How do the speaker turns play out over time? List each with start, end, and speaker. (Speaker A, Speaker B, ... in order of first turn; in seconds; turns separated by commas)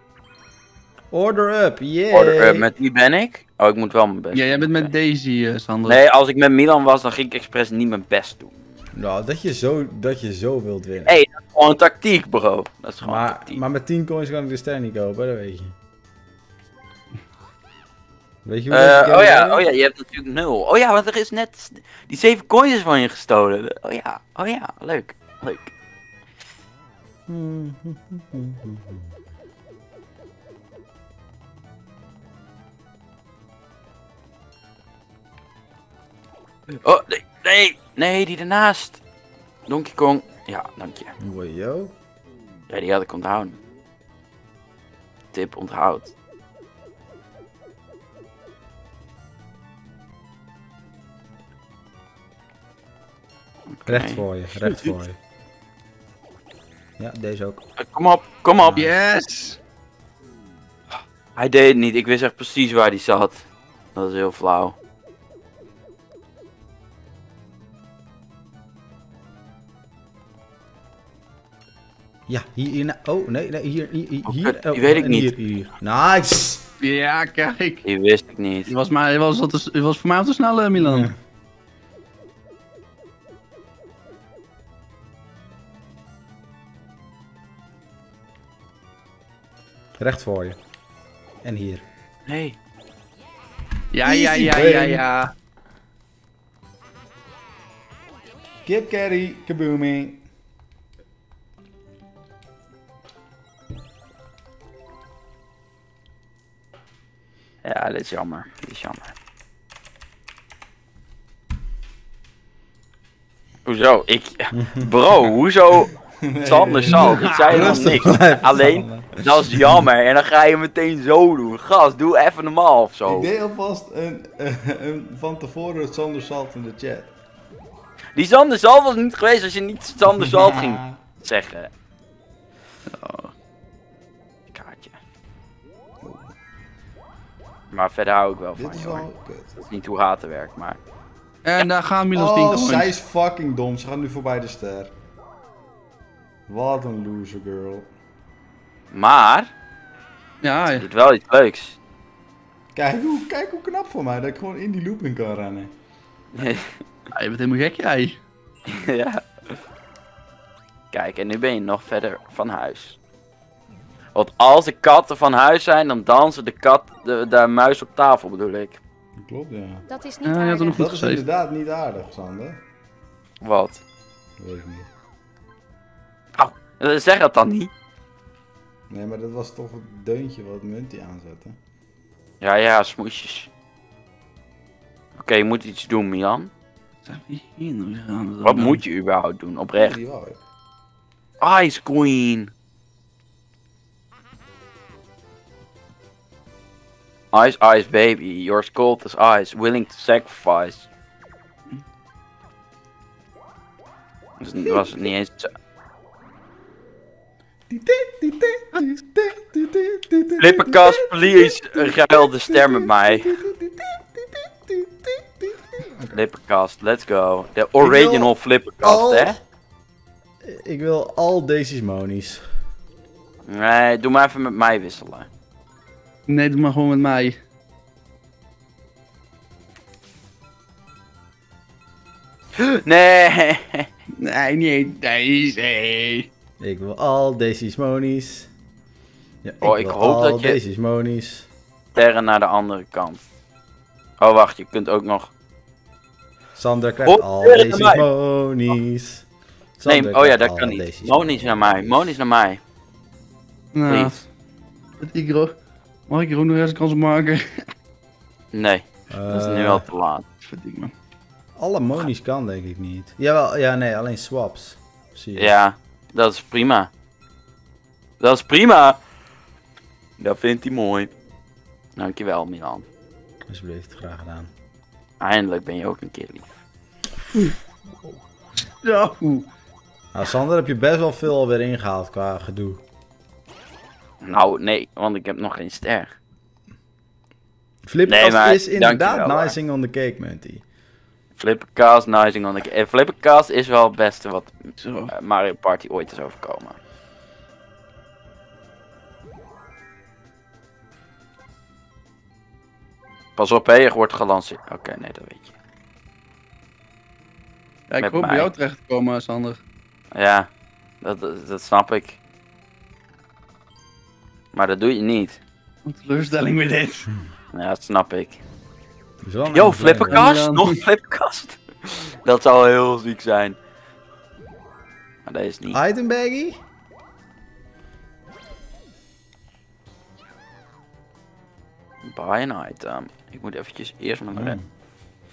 Speaker A: 1.1-2.7, Speaker B: 2.1-4.9, Speaker C: 4.3-6.0, Speaker B: 5.8-8.5, Speaker A: 8.9-11.2, Speaker B: 11.1-13.6, Speaker A: 13.0-15.7, Speaker A: 18.4-19.6, Speaker B: 18.7-25.7, Speaker A: 27.3-29.1, Speaker B: 36.7-39.0, Speaker B: 39.7-41.1, Speaker A: 41.2-41.9, Speaker B: 42.7-43.6, Speaker B: 45.3-46.1, Speaker B: 53.7-54.2, Speaker A: 53.9-55.2, Speaker A: 57.0-57.6, Speaker B: 57.8-58.8, Speaker A: 58.6-58.9, Speaker C: 58.7-59.6, Speaker B: 61.4-64.8, Speaker A: 72.3-76.6, Speaker B: 74.2-75.3, Speaker C: 76.8-77.8, Speaker B: 77.8-78.7, Speaker C: 78.7-81.1, Speaker A: 80.8-81.1, Speaker A: 90.0-90.6, Speaker A: 91.4-91.8, Speaker B: 92.2-92.6, Speaker C: 93.9-95.3, Speaker A: 94.0-95.1, Speaker A: 98.7-100.2, Speaker B: 107.6-109.1, Speaker B: 113.7-115.9, Speaker A: 114.5-114.9, Speaker A: 116.2-119.9, Speaker B: 116.4-123.3, Speaker C: 116.9-117.9, Speaker A: 123.0-127.1, Speaker B: 128.1-131.7, Speaker A: 130.1-131.0, Speaker C: 132.9-133.3, Speaker B: 134.5-135.0, Speaker A: 136.0-136.3, Speaker B: 137.7-140.8, Speaker A: 138.5-139.5, Speaker C: 141.4-142.9, Speaker A: 142.1-144.9, Speaker A: 146.5-147.9, Speaker B: 148.9-149.5, Speaker C: 150.4-150.9, Speaker B: 150.7-151.8, Speaker A: 152.7-155.7, Speaker B: 156.3-156.7, Speaker C: 157.1-158.2, Speaker B: 158.7-159.6, Speaker B: 160.9-163.0, Speaker B: 164.1-168.8, Speaker A: 169.2-169.9, Speaker C: 170.2-171.2, Speaker A: 170.7-172.6, Speaker B: 173.4-173.8, Speaker A: 174.4-174.9, Speaker B: 176.3-177.7, Speaker A: 178.9-181.6, Speaker B: 182.4-183.5, Speaker B: 185.2-186.5, Speaker C: 187.1-188.8, Speaker B: 188.4-189.9, Speaker A: 189.8-190.4, Speaker B: 191.4-192.5, Speaker B: 197.3-200.9, Speaker B: 204.4-205.5, Speaker A: 204.6-205.1, Speaker A: 207.7-216.2, Speaker B: 210.4-213.4, Speaker B: 216.1-219.3, Speaker A: 217.8-219.4, Speaker A: 220.4-222.4, Speaker B: 223.5-225.3, Speaker C: 226.3-227.4, Speaker B: 232.6-233.9, Speaker C: 234.2-236.3, Speaker A: 236.6-238.5, Speaker A: 239.4-241.5, Speaker B: 239.6-240.6, Speaker B: 241.9-243.2, Speaker B: 244.2-245.3, Speaker A: 246.5-249.3, Speaker B: 247.1-248.1, Speaker A: 249.8-252.2, Speaker B: 249.8-252.6, Speaker C: 253.7-254.2, Speaker B: 253.9-254.2, Speaker C: 255.0-255.5, Speaker C: 256.1-257.7, Speaker B: 258.5-260.2, Speaker A: 259.1-259.9, Speaker C: 260.4-260.9, Speaker A: 261.6-265.6, Speaker B: 265.4-266.9, Speaker B: 268.2-269.0, Speaker B: 270.2-271.1, Speaker B: 272.0-272.9, Speaker A: 273.5-274.5, Speaker B: 275.2-276.6, Speaker C: 278.8-279.5, Speaker A: 280.1-282.8, Speaker B: 284.2-286.1, Speaker A: 287.9-290.6, Speaker B: 288.1-289.5, Speaker B: 291.4-296.8, Speaker C: 294.8-295.1, Speaker B: 303.4-305.5, Speaker C: 307.9-309.6, Speaker B: 308.0-308.5, Speaker B: 310.1-310.5, Speaker B: 311.0-312.2, Speaker B: 314.5-315.4, Speaker C: 315.8-317.1, Speaker B: 317.5-318.4, Speaker A: 319.2-320.3, Speaker B: 319.5-323.6, Speaker C: 320.1-320.8, Speaker B: 325.2-325.8, Speaker A: 325.7-326.6, Speaker B: 332.0-334.6, Speaker A: 334.3-334.6